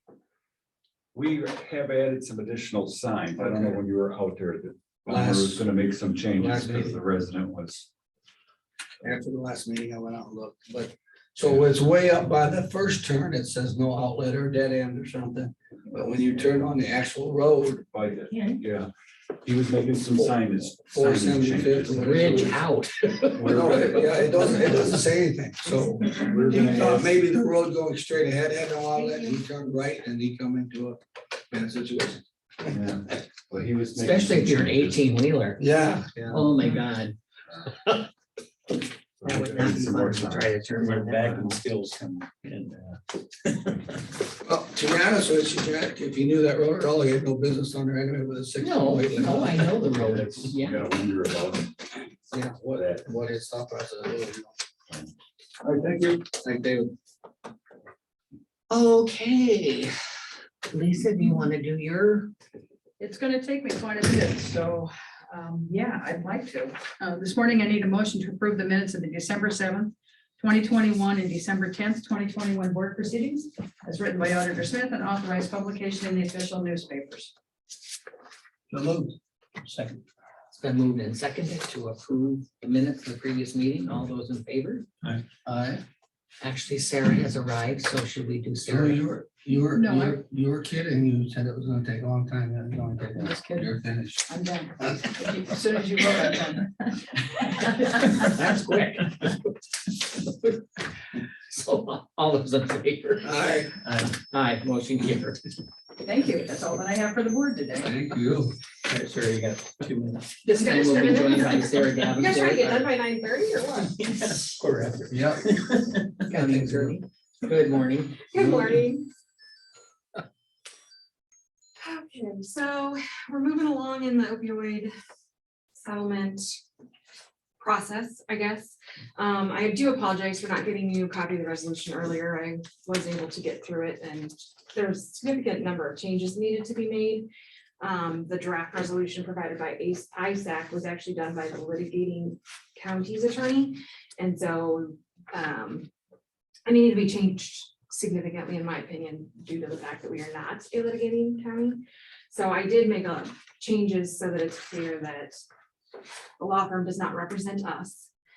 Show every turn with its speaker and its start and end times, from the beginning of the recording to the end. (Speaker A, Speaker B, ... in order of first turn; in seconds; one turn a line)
Speaker A: 1.1-7.9
Speaker B: 3.4-3.8
Speaker B: 5.1-5.7
Speaker B: 6.3-7.0
Speaker B: 9.0-17.8
Speaker A: 17.9-18.9
Speaker A: 19.4-22.5
Speaker B: 20.9-22.5
Speaker C: 21.9-23.9
Speaker A: 23.4-25.0
Speaker B: 23.4-32.8
Speaker A: 26.1-27.1
Speaker A: 32.7-35.0
Speaker C: 34.0-35.6
Speaker B: 35.6-36.5
Speaker C: 36.3-37.1
Speaker C: 37.7-38.0
Speaker A: 39.2-40.6
Speaker C: 39.2-41.5
Speaker D: 40.7-43.9
Speaker B: 44.4-49.7
Speaker C: 48.6-50.8
Speaker A: 49.9-51.8
Speaker B: 52.3-54.5
Speaker A: 55.6-56.2
Speaker B: 56.2-56.9
Speaker C: 58.7-59.9
Speaker C: 60.7-62.3
Speaker E: 63.0-77.3
Speaker B: 78.7-79.1
Speaker C: 80.5-84.8
Speaker B: 85.4-85.8
Speaker C: 86.4-89.0
Speaker B: 88.6-95.1
Speaker E: 89.8-90.1
Speaker E: 93.2-93.7
Speaker E: 94.3-96.9
Speaker C: 97.9-99.3
Speaker C: 101.5-103.6
Speaker B: 103.2-103.7
Speaker D: 103.8-104.1
Speaker C: 104.2-105.4
Speaker E: 106.0-107.9
Speaker B: 107.8-108.5
Speaker D: 108.8-110.4
Speaker C: 110.5-112.9
Speaker F: 110.5-114.0
Speaker D: 114.0-116.2
Speaker B: 115.1-115.5
Speaker C: 116.2-118.6
Speaker B: 116.3-117.0
Speaker F: 118.3-119.1
Speaker F: 121.8-124.9
Speaker F: 125.7-126.6
Speaker F: 127.6-137.3
Speaker F: 137.8-145.9
Speaker F: 146.7-155.4
Speaker F: 156.4-158.1